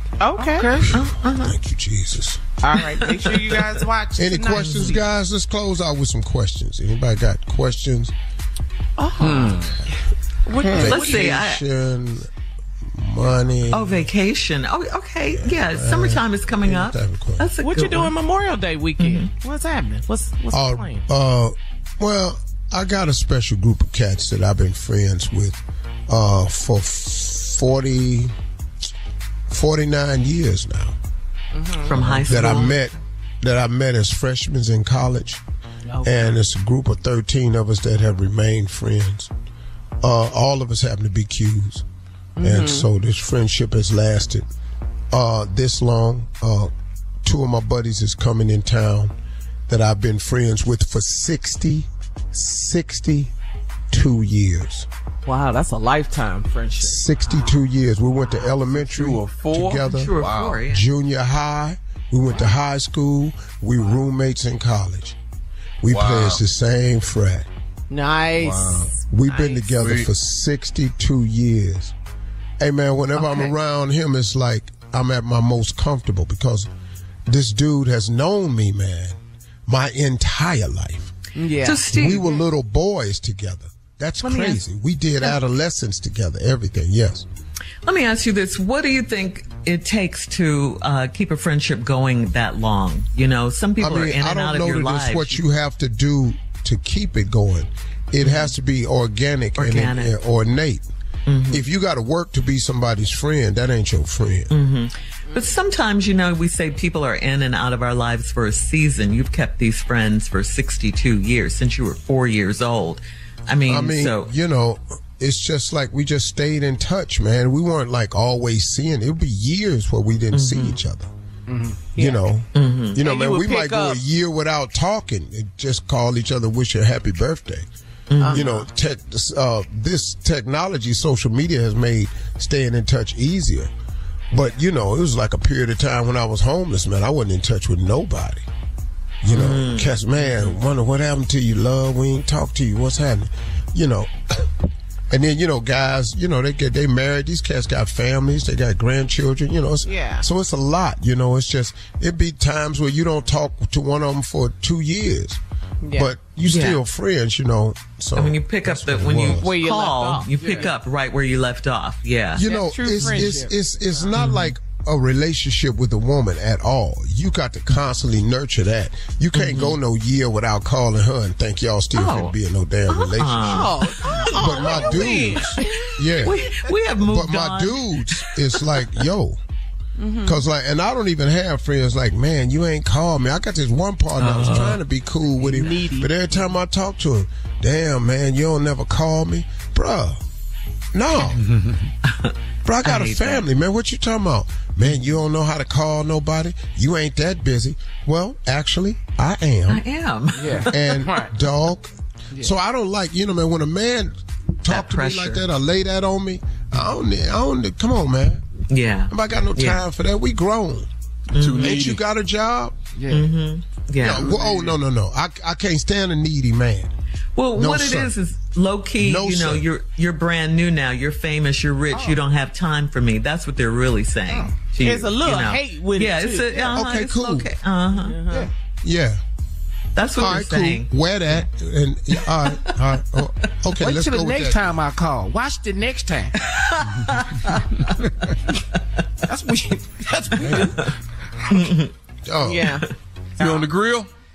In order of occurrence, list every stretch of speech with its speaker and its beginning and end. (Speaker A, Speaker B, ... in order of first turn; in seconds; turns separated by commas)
Speaker A: 0.2-0.9, Speaker B: 0.8-2.5, Speaker C: 0.9-1.5, Speaker A: 2.6-5.1, Speaker C: 3.1-3.8, Speaker B: 4.2-8.1, Speaker C: 4.5-5.0, Speaker A: 9.0-9.6, Speaker D: 9.2-9.8, Speaker A: 10.5-11.3, Speaker B: 10.6-12.3, Speaker C: 10.8-11.6, Speaker B: 12.8-14.1, Speaker C: 13.7-18.1, Speaker B: 15.3-17.5, Speaker A: 17.6-21.0, Speaker C: 19.0-19.3, Speaker B: 20.5-28.3, Speaker B: 29.5-31.0, Speaker A: 31.6-32.0, Speaker C: 31.8-32.8, Speaker B: 31.9-35.4, Speaker A: 35.9-36.4, Speaker B: 36.0-39.3, Speaker B: 40.0-41.9, Speaker A: 42.4-42.9, Speaker B: 42.4-44.5, Speaker B: 45.1-46.7, Speaker B: 47.2-49.1, Speaker B: 49.7-53.3, Speaker B: 53.9-54.9, Speaker A: 55.2-57.5, Speaker B: 56.8-60.2, Speaker D: 58.5-60.6, Speaker C: 59.8-60.9, Speaker B: 60.7-65.2, Speaker B: 65.8-67.5, Speaker D: 65.9-66.4, Speaker A: 67.9-69.3, Speaker D: 68.4-68.9, Speaker B: 69.1-71.9, Speaker D: 69.6-70.1, Speaker B: 72.6-76.7, Speaker A: 73.2-73.5, Speaker B: 77.3-81.1, Speaker A: 81.4-82.3, Speaker C: 81.6-82.3, Speaker B: 81.9-87.3, Speaker C: 84.2-84.6, Speaker C: 87.8-95.4, Speaker B: 93.8-100.9, Speaker C: 98.2-98.5, Speaker C: 99.6-100.2, Speaker C: 101.3-101.6, Speaker B: 101.5-104.5, Speaker C: 104.5-114.3, Speaker B: 113.7-121.1, Speaker C: 120.3-120.8, Speaker E: 121.5-122.0, Speaker B: 121.9-127.7, Speaker A: 122.0-122.2, Speaker C: 122.5-123.0, Speaker A: 123.0-124.0, Speaker C: 128.1-128.5, Speaker A: 128.2-128.5, Speaker B: 128.3-133.7, Speaker B: 134.3-138.5, Speaker B: 139.2-144.5, Speaker C: 139.3-140.0, Speaker B: 145.1-155.4, Speaker A: 149.8-150.3, Speaker A: 155.8-156.2, Speaker B: 155.9-159.5, Speaker C: 156.4-156.8, Speaker C: 158.2-162.5, Speaker A: 159.4-160.7, Speaker B: 162.4-176.4, Speaker A: 162.4-163.6, Speaker C: 164.2-164.5, Speaker C: 169.3-169.8, Speaker C: 171.9-172.3, Speaker C: 172.9-175.6, Speaker A: 173.5-176.1, Speaker C: 176.2-178.6, Speaker B: 177.0-179.4, Speaker A: 180.0-180.4, Speaker B: 180.2-190.2, Speaker C: 184.2-184.8, Speaker A: 185.4-186.4, Speaker B: 190.9-191.4, Speaker D: 191.3-191.8, Speaker C: 192.1-193.5, Speaker B: 192.7-199.8, Speaker C: 199.7-201.0, Speaker E: 200.4-201.3, Speaker B: 200.7-208.4, Speaker C: 204.7-205.4, Speaker C: 208.7-209.8, Speaker B: 209.1-210.9, Speaker C: 211.3-211.8, Speaker D: 211.4-212.0, Speaker B: 211.6-212.8, Speaker E: 212.9-213.3, Speaker C: 213.1-214.4, Speaker B: 214.0-216.9, Speaker C: 217.4-228.2, Speaker B: 217.6-218.1, Speaker B: 219.0-219.7, Speaker A: 224.8-226.8, Speaker B: 226.7-227.5, Speaker A: 228.0-228.5, Speaker B: 228.8-229.2, Speaker C: 229.9-230.9, Speaker B: 230.2-234.8, Speaker C: 232.4-232.7, Speaker E: 233.8-236.3, Speaker C: 236.4-237.9, Speaker E: 239.2-240.8, Speaker B: 240.3-240.8, Speaker C: 241.5-241.9, Speaker B: 242.2-242.8, Speaker A: 242.4-242.9, Speaker D: 243.4-244.1